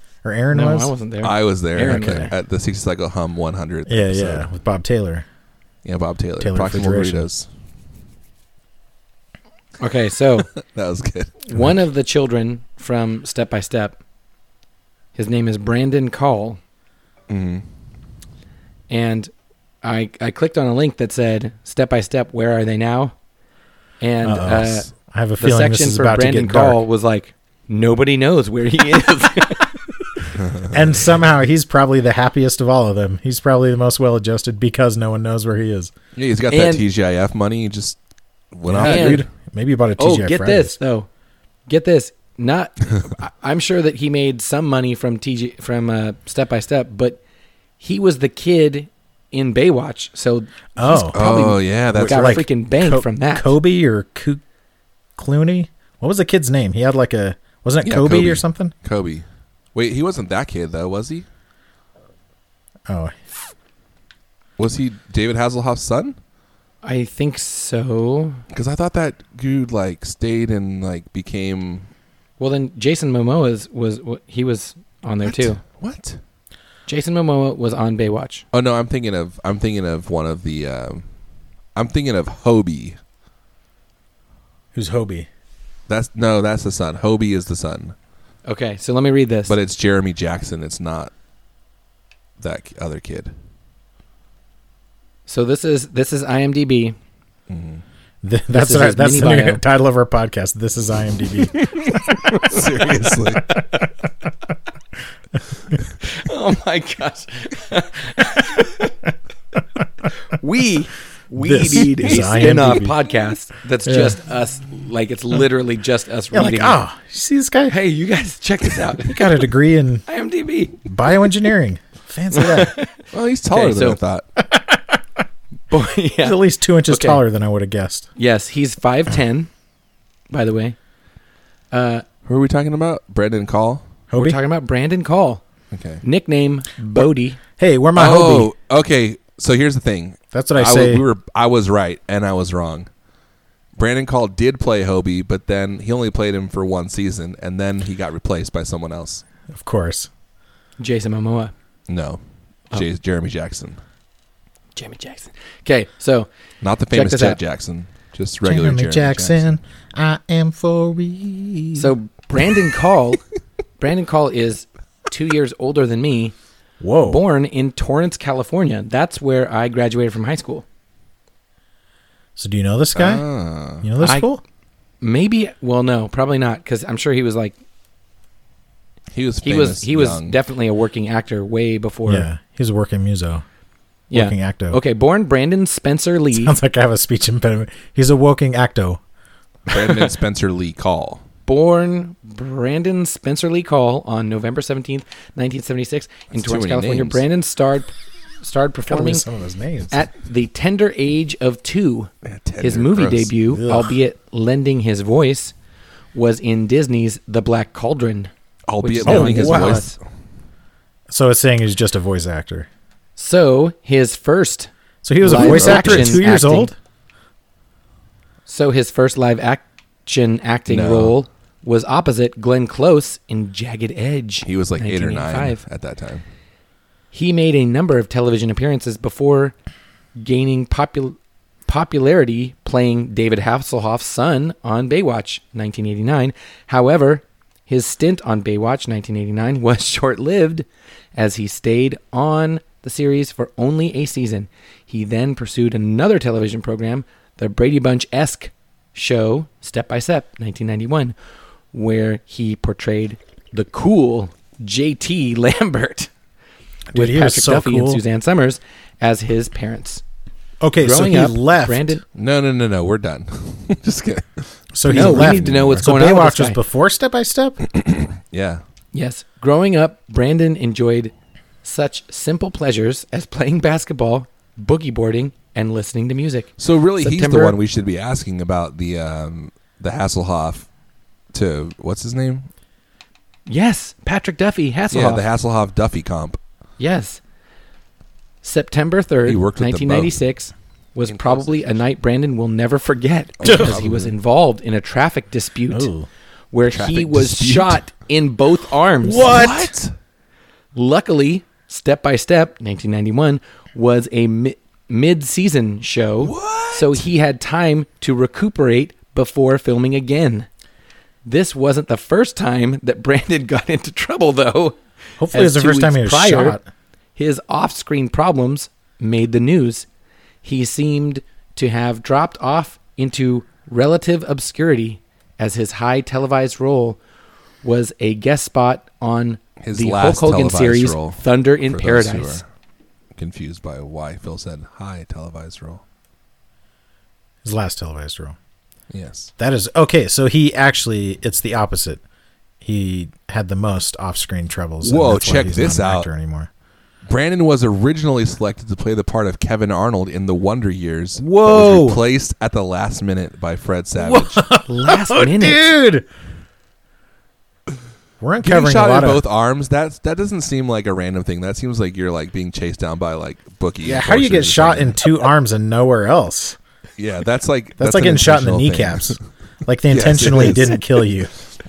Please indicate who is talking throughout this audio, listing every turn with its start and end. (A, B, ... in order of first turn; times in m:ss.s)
0:00.2-0:00.9 A
0:00.5-0:02.3 B
0:01.2-0:04.5 C
0:01.8-0:02.3 A
0:03.9-0:05.2 A
0:05.8-0:07.5 C
0:06.4-0:07.3 A
0:09.8-0:10.5 B
0:10.5-0:11.4 C
0:11.4-0:14.0 B
0:15.1-0:16.6 B
0:17.3-0:17.6 C
0:18.9-0:19.3 B
0:19.8-0:23.1 B
0:24.0-0:30.1 B
0:24.2-0:26.8 A
0:30.3-0:30.8 C
0:30.7-0:35.9 A
0:36.2-0:38.0 C
0:36.5-0:36.8 B
0:38.5-0:39.3 C
0:38.7-0:40.8 A
0:38.8-0:39.2 B
0:40.0-0:41.1 B
0:41.7-0:47.2 B
0:47.8-0:53.5 B
0:50.8-0:51.2 A
0:51.1-0:52.4 C
0:51.9-0:54.4 A
0:55.2-0:58.7 A
0:57.8-1:01.2 C
1:02.9-1:03.1 A
1:04.6-1:06.2 C
1:06.8-1:08.4 B
1:08.5-1:11.9 C
1:12.4-1:15.6 B
1:15.2-1:16.2 C
1:16.9-1:18.4 B
1:18.5-1:21.0 C
1:21.7-1:23.0 C
1:24.7-1:25.3 A
1:25.9-1:27.9 C
1:28.4-1:29.5 B
1:29.5-1:31.1 C
1:32.4-1:33.3 C
1:35.3-1:37.0 B
1:37.5-1:37.8 C
1:38.2-1:42.6 A
1:38.5-1:39.6 B
1:41.5-1:43.5 C
1:46.0-1:48.9 B
1:50.3-1:56.8 B
1:51.4-1:53.0 A
1:53.8-1:54.2 A
1:56.3-1:57.8 A
1:57.7-1:59.4 B
1:59.0-2:00.0 A
2:00.1-2:00.8 B
2:00.8-2:02.7 A
2:02.3-2:02.9 B
2:03.1-2:04.2 C
2:03.5-2:04.0 B
2:04.5-2:05.0 A
2:05.7-2:07.2 B
2:06.2-2:08.1 A
2:08.2-2:09.5 B
2:10.3-2:10.8 B
2:11.7-2:12.0 B
2:12.2-2:13.9 C
2:14.1-2:14.4 A
2:14.1-2:15.4 B
2:15.7-2:16.0 C
2:16.0-2:17.4 B
2:16.8-2:18.5 A
2:17.9-2:22.9 C
2:20.3-2:21.0 A
2:23.8-2:29.2 C
2:29.5-2:30.1 A
2:30.8-2:31.5 B
2:31.9-2:33.8 C
2:34.8-2:36.3 B
2:36.6-2:39.4 C
2:36.9-2:37.4 B
2:38.4-2:41.9 A
2:41.7-2:43.2 B
2:43.8-2:46.3 B
2:46.8-2:47.2 A
2:47.0-2:50.6 B
2:52.4-2:53.2 A
2:52.9-2:53.9 C
2:53.8-2:54.4 A
2:54.0-2:54.3 B
2:55.0-2:57.5 B
2:59.1-3:00.4 C
2:59.4-3:02.3 B
3:02.0-3:03.4 A
3:04.1-3:06.5 B
3:04.1-3:04.8 A
3:06.3-3:09.0 A
3:09.7-3:11.2 C
3:11.5-3:19.2 B
3:16.3-3:17.2 C
3:18.9-3:20.0 A
3:19.9-3:25.5 B
3:22.2-3:23.3 C
3:23.5-3:24.0 A
3:26.1-3:28.3 B
3:28.7-3:30.0 C
3:28.8-3:29.9 B
3:29.0-3:29.8 A
3:31.1-3:32.7 A
3:33.2-3:34.7 B
3:35.0-3:36.7 A
3:35.2-3:36.7 B
3:35.3-3:36.2 C
3:38.5-3:45.6 B
3:40.7-3:41.2 C
3:44.4-3:46.2 C
3:47.1-3:49.5 B
3:50.2-4:11.1 B
4:11.7-4:16.1 B
4:16.9-4:18.0 A
4:16.9-4:20.0 B
4:20.6-4:22.0 A
4:20.8-4:22.0 B
4:22.1-4:25.8 C
4:24.7-4:27.6 A
4:24.9-4:26.6 B
4:27.7-4:28.6 C
4:28.9-4:31.1 B
4:31.6-4:37.6 B
4:36.6-4:40.7 C
4:41.3-4:42.5 C
4:43.5-4:45.2 B
4:44.9-4:46.4 C
4:46.8-4:47.2 B
4:48.4-4:55.9 B
4:49.2-4:50.1 C
4:51.0-4:51.6 C
4:53.4-4:54.1 C
4:53.5-4:53.8 A
4:55.7-4:56.1 A
4:56.5-4:59.5 B
4:56.7-4:57.8 C
4:59.0-4:59.9 C
4:59.1-4:59.7 A
5:00.7-5:10.5 B
5:06.2-5:07.0 C
5:11.2-5:14.8 B
5:15.2-5:16.6 A
5:15.3-5:16.6 B
5:17.2-5:19.8 B
5:20.4-5:27.0 B
5:27.6-5:32.4 B
5:29.6-5:32.4 C
5:33.2-5:35.8 C
5:37.4-5:38.4 A
5:38.9-5:39.3 C
5:39.4-5:42.0 A
5:42.6-5:46.5 A
5:44.8-5:46.1 C
5:47.1-5:54.4 C
5:51.2-5:52.0 A
5:54.0-5:56.1 A
5:54.7-5:55.7 B
5:58.2-5:59.2 A
5:58.4-6:05.0 C
6:03.8-6:06.6 A
6:07.0-6:09.2 C
6:07.8-6:11.3 A
6:09.9-6:10.8 C